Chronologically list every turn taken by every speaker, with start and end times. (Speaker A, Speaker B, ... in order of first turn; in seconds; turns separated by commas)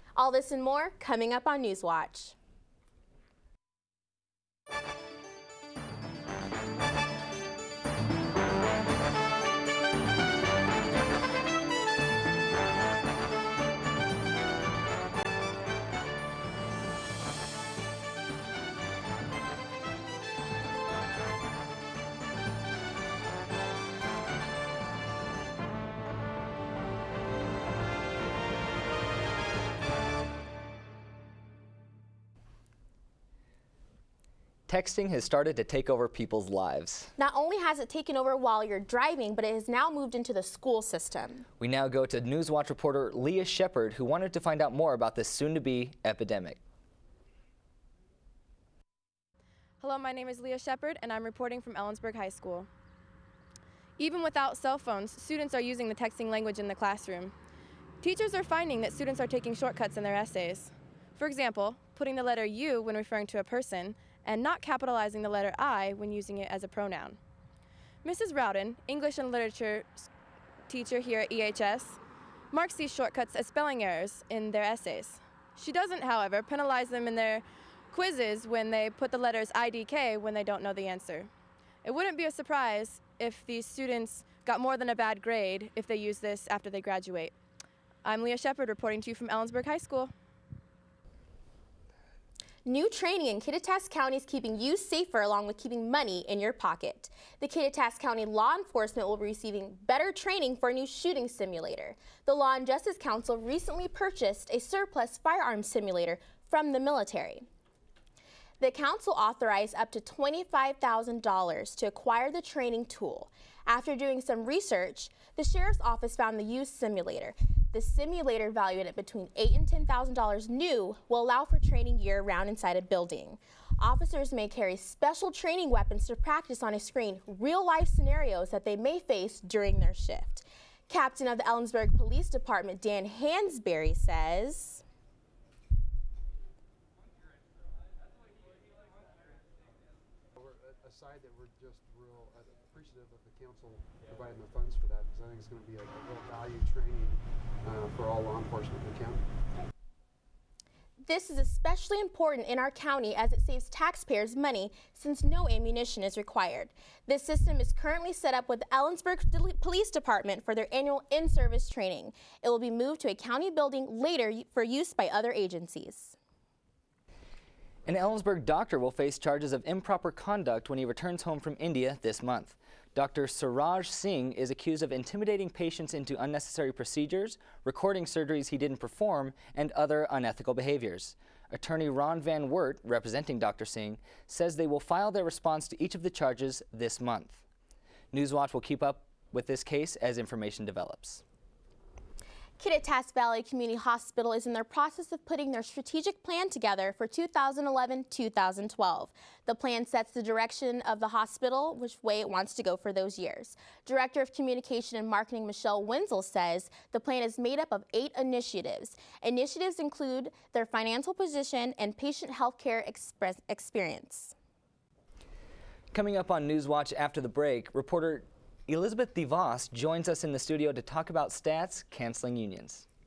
Speaker A: 0.2-2.4, Speaker B: 34.7-37.1, Speaker A: 37.2-41.5, Speaker B: 41.6-46.6, Speaker C: 49.8-52.7, Speaker C: 54.0-57.3, Speaker C: 58.0-67.2, Speaker C: 68.0-70.1, Speaker C: 70.7-72.0, Speaker C: 72.5-81.3, Speaker C: 81.8-87.3, Speaker C: 88.0-90.1, Speaker A: 92.7-107.5, Speaker A: 108.6-134.8, Speaker D: 140.4-149.2, Speaker A: 151.0-166.2, Speaker B: 167.9-187.4, Speaker B: 188.1-191.2, Speaker A: 192.6-214.3, Speaker B: 215.9-222.8